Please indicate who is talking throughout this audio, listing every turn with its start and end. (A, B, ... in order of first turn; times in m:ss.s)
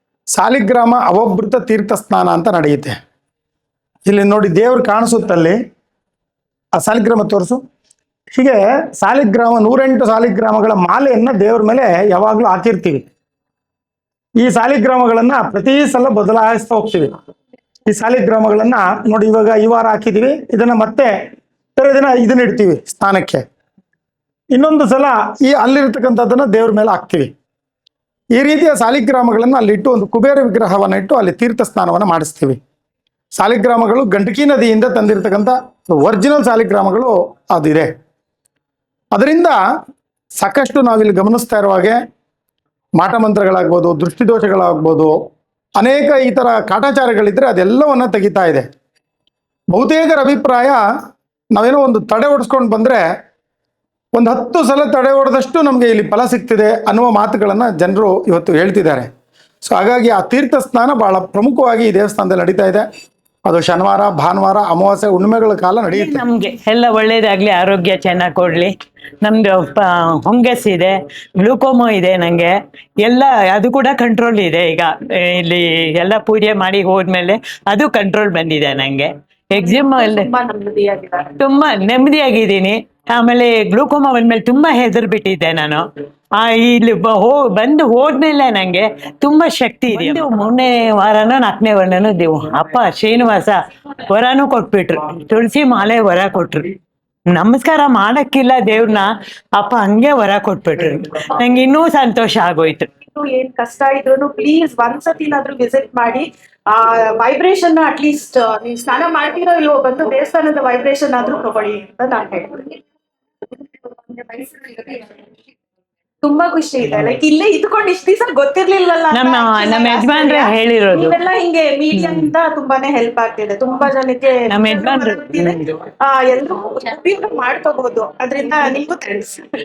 0:00.3-0:02.9 A
0:04.0-0:05.6 A
0:06.7-0:07.6 A
0:08.3-0:13.0 A
0:14.4-0:17.1 A
0:17.9-0:21.2 A
0:21.8-0:23.4 A
0:24.5-0:27.3 A
0:28.3-0:32.6 A
0:33.3-0:37.9 A
0:39.1-0:39.6 A
0:40.4-0:42.0 A
0:43.0-0:45.2 A
0:45.8-0:48.6 A
0:49.7-0:50.8 A
0:51.5-0:53.0 A
0:54.1-0:59.1 A
0:59.6-1:02.8 A
1:03.4-1:06.2 A
1:05.9-1:20.3 B
1:19.5-1:21.3 C
1:21.4-1:25.8 B
1:26.4-1:36.7 B
1:37.3-1:42.9 B
1:43.1-1:52.8 C
1:53.5-1:55.2 C
1:56.2-2:09.4 C
1:59.1-2:01.2 B
2:02.0-2:02.3 B
2:04.5-2:05.6 B